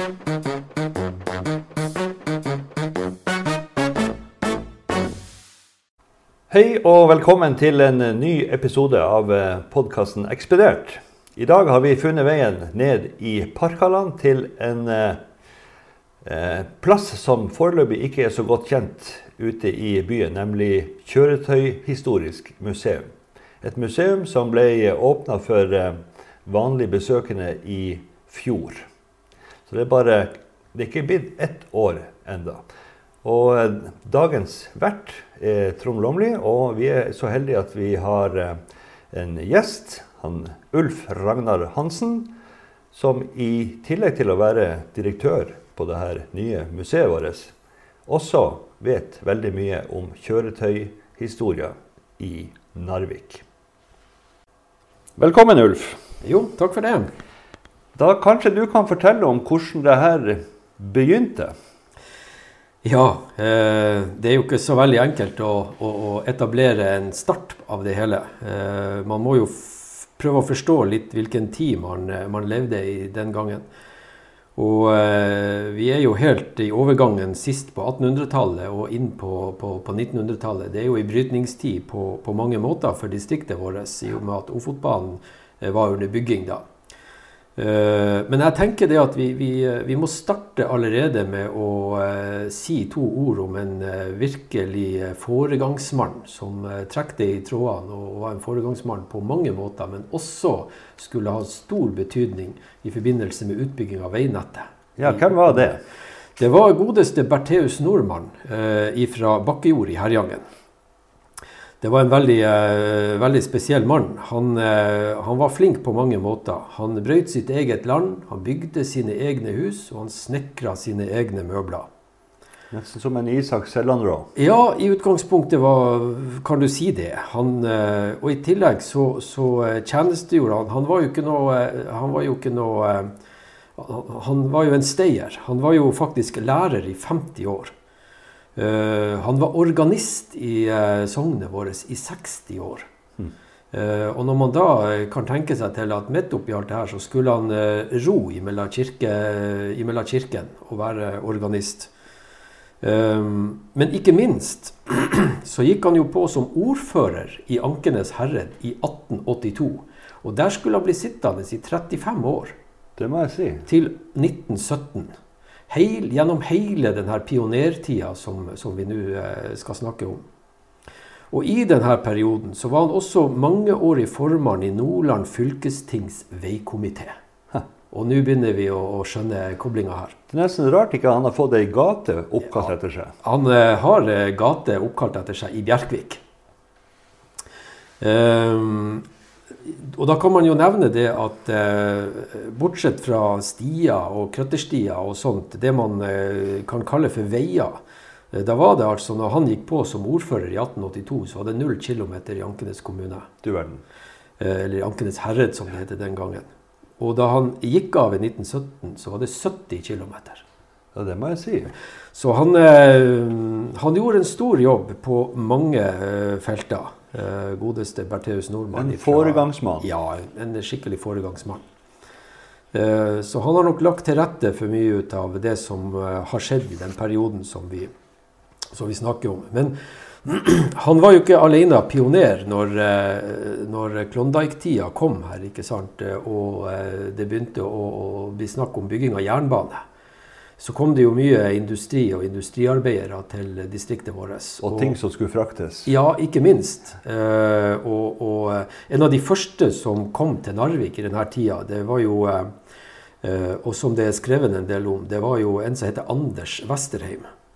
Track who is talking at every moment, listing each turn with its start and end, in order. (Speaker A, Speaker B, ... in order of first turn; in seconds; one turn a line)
Speaker A: 6.5-15.2
Speaker A: 16.2-23.1
Speaker A: 23.6-28.9
Speaker A: 29.7-32.6
Speaker A: 33.2-38.6
Speaker A: 39.1-42.3
Speaker A: 42.9-47.5
Speaker A: 48.1-53.4
Speaker A: 55.2-56.0
Speaker B: 56.2-57.1
Speaker A: 58.0-61.5
Speaker B: 62.8-73.7
Speaker B: 74.6-86.6
Speaker B: 87.6-105.8
Speaker A: 105.0-105.8
Speaker B: 106.4-110.5
Speaker B: 111.8-121.9
Speaker A: 122.7-124.3
Speaker B: 124.4-133.1
Speaker B: 133.8-137.7
Speaker B: 138.6-142.9
Speaker B: 143.7-151.9
Speaker B: 152.8-162.6
Speaker A: 163.0-163.7
Speaker B: 163.7-165.1
Speaker B: 165.7-170.2
Speaker B: 171.3-177.1
Speaker B: 177.9-180.2
Speaker A: 180.3-183.2
Speaker B: 183.2-186.2
Speaker B: 188.0-189.1
Speaker B: 189.7-197.8
Speaker B: 198.3-203.3
Speaker A: 203.4-203.8
Speaker B: 204.4-206.5
Speaker B: 207.0-210.4
Speaker A: 210.9-211.7
Speaker B: 212.1-221.6
Speaker A: 218.7-219.9
Speaker B: 222.7-227.9
Speaker B: 228.7-239.8
Speaker B: 240.6-244.9
Speaker A: 244.6-245.9
Speaker B: 245.9-252.5
Speaker B: 253.2-257.3